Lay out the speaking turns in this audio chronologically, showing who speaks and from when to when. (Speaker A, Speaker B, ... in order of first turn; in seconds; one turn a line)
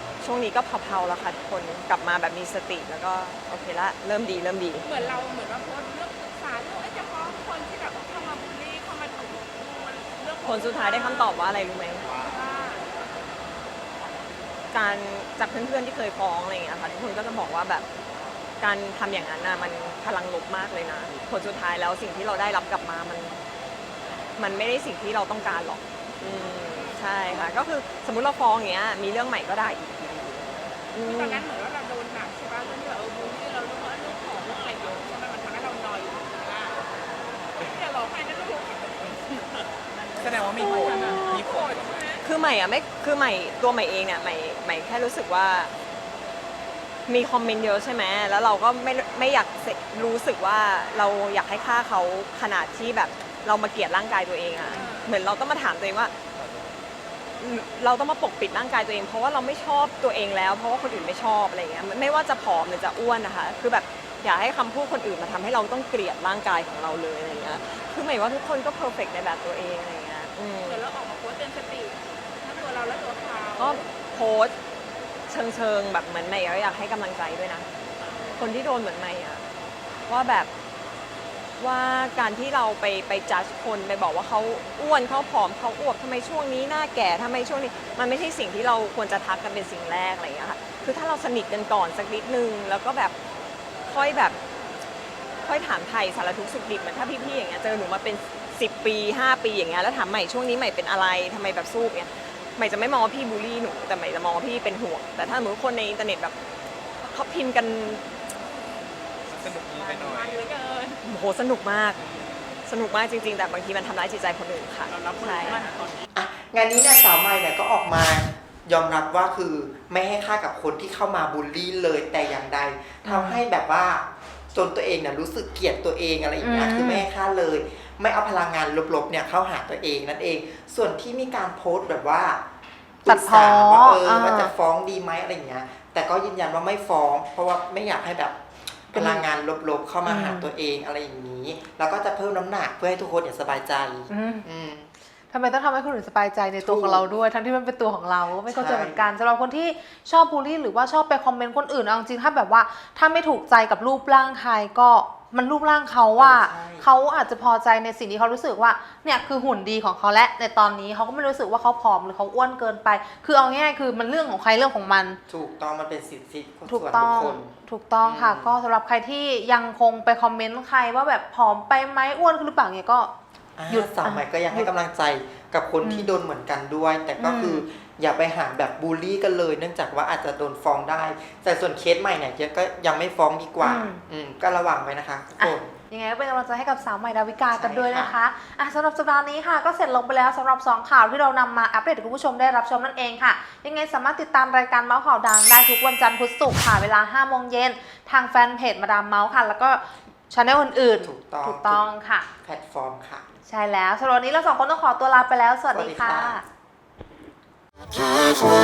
Speaker A: 0.2-4.9
Speaker B: 4.8-11.4
Speaker A: 10.4-12.1
Speaker B: 12.1-12.9
Speaker A: 14.7-17.9
Speaker A: 18.6-23.4
Speaker A: 24.4-29.9
Speaker A: 30.9-31.4
Speaker B: 31.1-36.8
Speaker B: 37.6-39.5
Speaker B: 40.2-42.2
Speaker A: 40.4-41.5
Speaker C: 41.4-41.8
Speaker A: 42.2-45.7
Speaker A: 47.1-56.1
Speaker B: 54.7-55.1
Speaker A: 57.4-70.8
Speaker B: 70.7-73.9
Speaker A: 73.6-74.5
Speaker A: 75.3-77.7
Speaker A: 78.4-79.5
Speaker A: 80.1-80.5
Speaker A: 81.6-93.2
Speaker A: 93.8-94.4
Speaker A: 95.4-106.4
Speaker A: 107.0-108.0
Speaker C: 109.3-110.5
Speaker B: 109.8-111.0
Speaker A: 111.0-112.0
Speaker A: 112.7-115.7
Speaker C: 114.9-116.0
Speaker D: 116.2-132.4
Speaker E: 123.1-123.4
Speaker E: 126.4-127.1
Speaker D: 133.1-138.4
Speaker E: 133.1-134.5
Speaker D: 138.9-144.9
Speaker E: 138.9-139.3
Speaker E: 140.1-140.5
Speaker E: 144.1-144.5
Speaker E: 145.3-165.2
Speaker D: 146.6-147.1
Speaker D: 148.5-149.0
Speaker D: 156.2-156.9
Speaker D: 165.3-167.5
Speaker E: 166.7-173.1
Speaker D: 168.0-168.6
Speaker D: 173.6-185.7
Speaker E: 173.7-174.7
Speaker E: 175.8-176.2
Speaker E: 177.2-177.6
Speaker E: 183.6-184.0
Speaker E: 185.4-202.3
Speaker D: 187.5-188.2
Speaker D: 201.0-201.8
Speaker D: 202.4-203.2
Speaker E: 203.5-206.4
Speaker D: 205.7-206.4